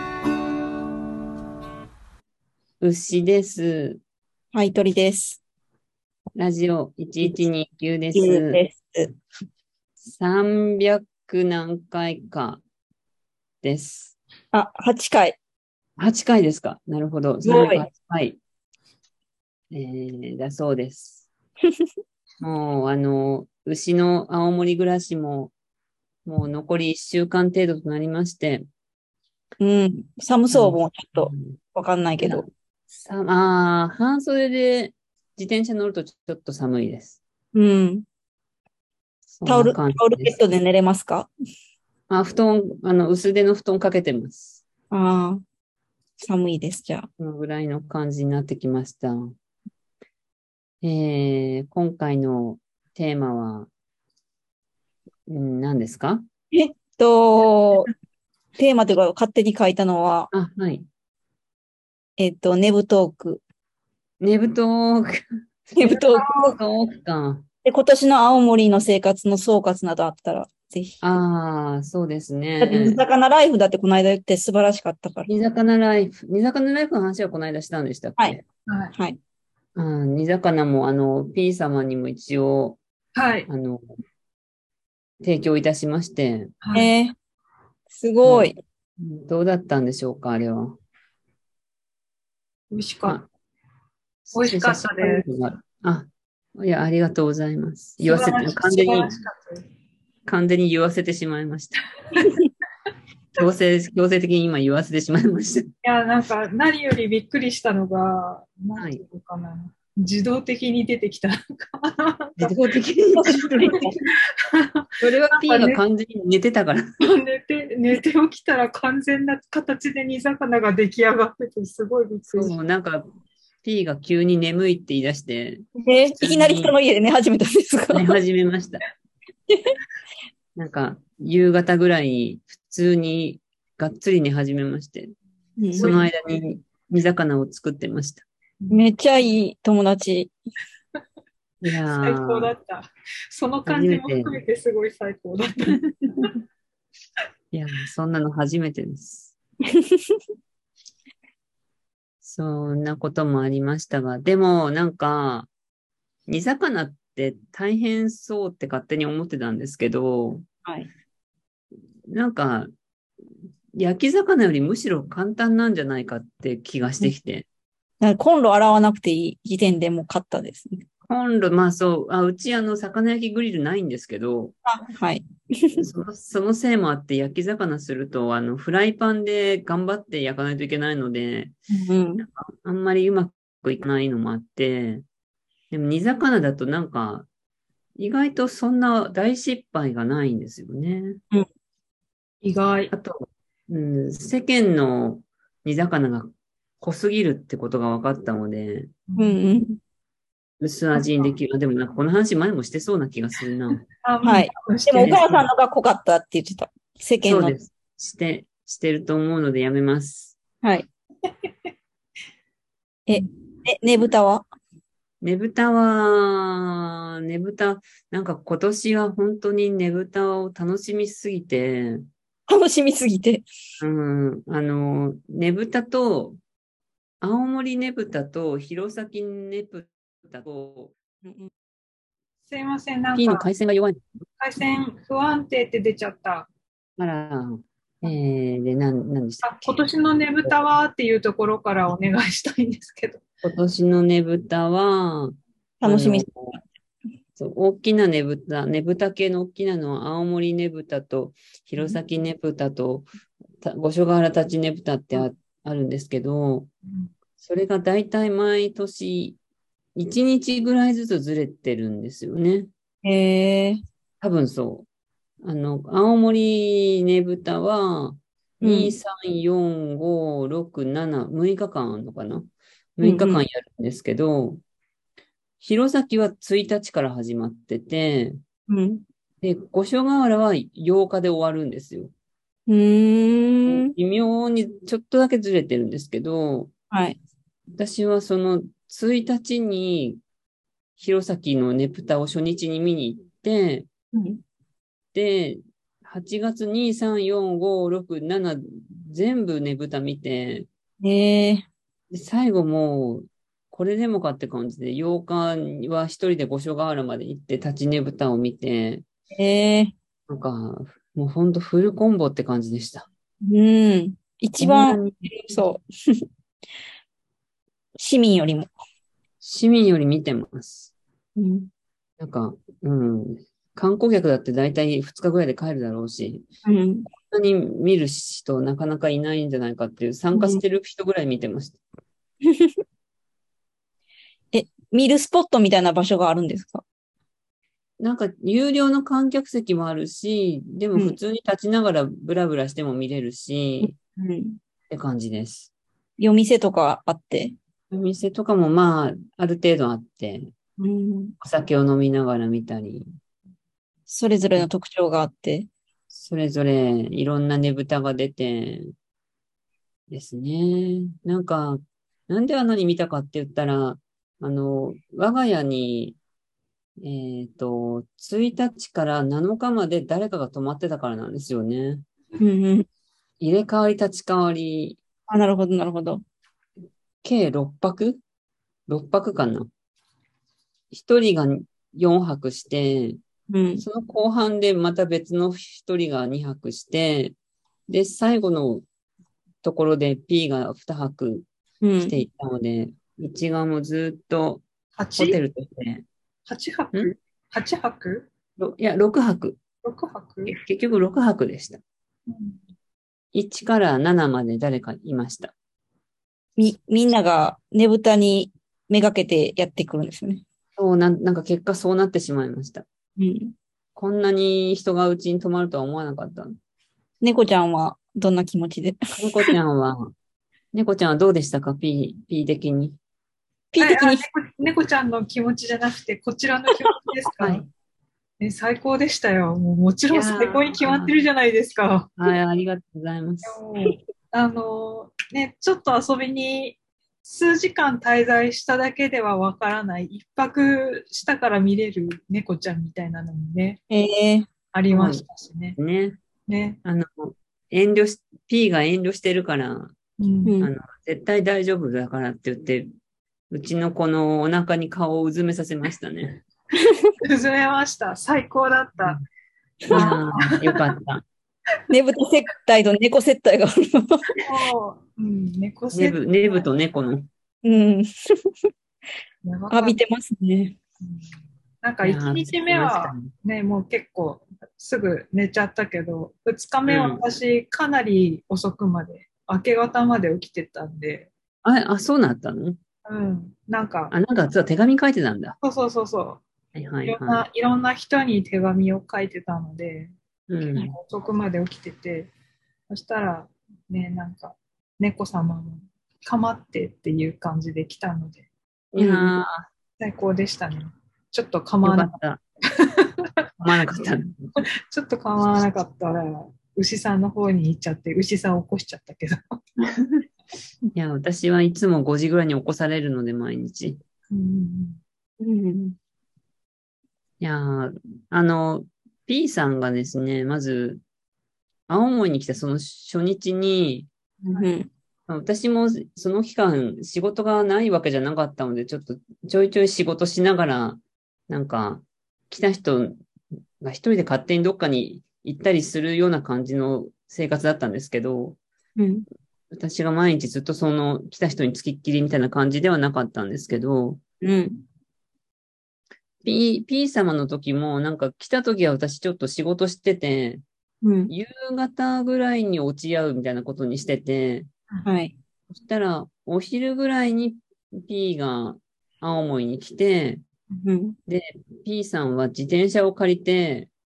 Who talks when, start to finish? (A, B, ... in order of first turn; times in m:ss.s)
0:02.8-0:04.0 A
0:04.5-0:05.4 B
0:06.4-0:08.6 A
0:08.1-0:09.1 B
0:10.0-0:12.6 A
0:13.6-0:14.2 A
0:14.5-0:15.4 B
0:16.0-0:18.4 A
0:17.4-0:17.9 B
0:19.7-0:21.3 A
0:22.4-0:25.5 A
0:26.3-0:28.6 A
0:29.6-0:32.5 B
0:30.5-0:31.6 A
0:32.2-0:37.2 A
0:37.5-0:38.1 B
0:39.3-0:40.4 A
0:39.5-0:41.3 B
0:42.1-0:44.6 A
0:44.9-0:45.4 B
0:46.2-0:47.1 B
0:47.2-0:49.3 A
0:50.8-0:53.7 A
0:55.3-0:56.2 A
0:56.5-0:57.9 B
0:58.6-1:00.3 B
1:00.3-1:00.9 A
1:02.2-1:03.4 B
1:04.2-1:05.2 A
1:05.7-1:06.6 B
1:05.8-1:07.4 A
1:07.6-1:11.0 B
1:11.0-1:13.0 A
1:12.6-1:15.3 B
1:15.3-1:18.4 A
1:18.7-1:18.9 C
1:19.8-1:22.8 A
1:23.2-1:23.5 C
1:23.5-1:23.8 A
1:25.2-1:26.5 A
1:26.6-1:26.9 C
1:26.7-1:27.2 B
1:27.9-1:28.6 B
1:28.2-1:30.8 A
1:32.7-1:33.2 C
1:34.3-1:39.2 A
1:34.3-1:35.2 C
1:38.0-1:39.6 C
1:40.3-1:41.9 A
1:43.4-1:45.7 A
1:45.8-1:52.6 C
1:48.8-1:49.0 A
1:52.4-1:54.0 A
1:53.1-1:54.0 B
1:54.4-1:55.8 C
1:55.0-1:56.9 A
1:57.0-2:02.6 C
2:02.3-2:03.0 A
2:03.6-2:05.7 A
2:05.8-2:08.2 B
2:06.2-2:06.8 A
2:07.9-2:08.8 A
2:09.5-2:09.7 B
2:10.6-2:15.1 A
2:15.6-2:15.9 B
2:15.8-2:18.2 A
2:15.8-2:16.1 C
2:18.6-2:18.9 C
2:18.7-2:20.3 B
2:21.6-2:22.5 A
2:21.9-2:26.3 C
2:23.7-2:24.4 A
2:25.7-2:26.3 A
2:27.5-2:29.3 A
2:29.7-2:30.2 B
2:32.2-2:35.5 A
2:36.3-2:40.4 A
2:42.1-2:42.7 A
2:43.7-2:47.5 A
2:48.0-2:50.8 B
2:51.1-2:54.5 A
2:54.6-2:55.9 B
2:55.8-3:01.6 A
3:01.7-3:02.2 B
3:02.2-3:05.0 A
3:05.7-3:07.3 A
3:08.0-3:11.2 A
3:12.4-3:12.9 C
3:12.9-3:18.9 A
3:19.1-3:19.4 C
3:19.2-3:19.8 B
3:20.6-3:23.8 A
3:21.0-3:21.3 C
3:23.9-3:25.5 C
3:24.2-3:27.6 B
3:27.2-3:30.4 A
3:30.6-3:30.9 B
3:33.1-3:34.5 B
3:35.2-3:42.1 A
3:42.5-3:43.4 B
3:43.8-3:46.4 A
3:47.2-3:50.9 A
3:51.2-3:51.5 B
3:52.5-3:53.5 C
3:53.2-3:54.0 A
3:54.4-3:56.5 C
3:57.0-3:59.8 A
3:59.4-4:03.2 C
4:03.4-4:06.6 A
4:05.8-4:06.3 B
4:07.4-4:13.1 A
4:13.6-4:16.7 A
4:16.9-4:17.1 C
4:17.4-4:19.4 A
4:20.0-4:22.7 A
4:23.0-4:23.8 B
4:24.2-4:24.9 A
4:25.4-4:34.6 A
4:28.6-4:29.0 B
4:33.0-4:33.4 B
4:35.6-4:38.4 A
4:38.7-4:39.0 B
4:39.4-4:42.1 A
4:42.7-4:43.9 B
4:43.7-4:46.7 A
4:46.9-4:47.2 B
4:47.7-4:50.2 A
4:51.0-4:53.9 A
4:54.1-4:54.4 B
4:55.1-5:00.7 A
5:01.0-5:01.7 B
5:02.1-5:09.0 A
5:09.3-5:09.9 B
5:10.3-5:13.1 A
5:13.4-5:16.2 B
5:14.6-5:15.5 A
5:18.0-5:18.7 B
5:19.4-5:20.9 A
5:21.4-5:21.7 B
5:22.2-5:26.5 A
5:26.6-5:27.1 B
5:27.3-5:31.8 A
5:30.3-5:30.6 B
5:32.4-5:32.8 B
5:34.5-5:36.8 B
5:38.0-5:44.0 A
5:43.8-5:44.6 B
5:44.9-5:45.7 A
5:46.2-5:47.6 B
5:47.9-5:50.5 A
5:50.8-5:51.4 B
5:51.4-5:53.1 A
5:54.1-5:55.7 B
5:56.1-5:58.9 A
6:00.1-6:06.2 A
6:07.0-6:12.0 A
6:12.4-6:12.9 B
6:13.4-6:15.0 A
6:15.3-6:16.2 B
6:17.2-6:18.2 A
6:18.9-6:19.7 A
6:20.9-6:23.2 A
6:23.5-6:23.8 B
6:23.8-6:27.4 A
6:27.9-6:28.8 A
6:29.6-6:31.5 A
6:31.8-6:32.2 B
6:32.0-6:34.6 A
6:35.0-6:35.4 C
6:35.2-6:36.1 A
6:36.5-6:38.3 C
6:38.6-6:39.6 A
6:39.8-6:40.6 C
6:40.5-6:41.8 A
6:42.3-6:42.6 C
6:43.3-6:45.5 A
6:46.6-6:50.4 B
6:50.8-6:52.8 A
6:53.2-6:53.5 B
6:54.0-6:56.5 A
6:57.2-6:59.5 B
6:59.2-7:00.1 A
7:00.7-7:03.0 A
7:03.7-7:04.3 B
7:03.8-7:07.6 C
7:07.4-7:07.7 A
7:08.4-7:12.1 C
7:10.1-7:11.2 A
7:12.2-7:13.6 A
7:13.4-7:23.8 C
7:23.9-7:24.5 B
7:24.7-7:25.8 C
7:24.9-7:25.2 A
7:25.8-7:26.2 A
7:26.5-7:26.8 C
7:26.8-7:29.9 A
7:30.2-7:30.6 C
7:30.5-7:30.7 B
7:30.6-7:32.9 A
7:33.5-7:36.4 A
7:37.2-7:39.2 C
7:39.8-7:40.1 B
7:39.9-7:40.9 C
7:39.9-7:41.2 A
7:41.9-7:44.4 B
7:44.4-7:46.7 C
7:45.9-7:47.3 A
7:47.6-7:48.5 B
7:49.4-7:50.0 C
7:49.7-7:50.8 B
7:51.0-7:51.3 C
7:51.8-8:01.3 C
7:52.0-7:53.3 A
7:56.9-7:57.2 A
8:01.6-8:02.8 A
8:03.1-8:04.1 C
8:04.1-8:05.6 A
8:05.6-8:06.4 C
8:06.8-8:07.4 A
8:07.0-8:10.1 C
8:10.5-8:10.9 A
8:10.8-8:12.3 C
8:12.9-8:18.4 C
8:18.9-8:19.7 A
8:19.0-8:19.4 B
8:20.0-8:22.1 C
8:21.8-8:22.4 A
8:22.8-8:23.3 C
8:23.6-8:24.5 A
8:24.6-8:29.6 C
8:29.8-8:30.2 A
8:30.9-8:34.0 A
8:34.3-8:35.0 C
8:35.4-8:36.0 B
8:37.4-8:41.0 A
8:41.9-8:44.1 A
8:44.5-8:44.7 C
8:44.5-8:44.9 B
8:45.3-8:53.2 A
8:53.8-8:58.6 A
8:59.0-8:59.2 B
8:59.7-9:04.2 A
9:04.4-9:04.8 B
9:06.4-9:10.6 A
9:11.0-9:11.3 B
9:11.3-9:14.7 A
9:15.0-9:15.3 B
9:15.7-9:20.4 A
9:20.8-9:21.2 B
9:21.3-9:23.9 A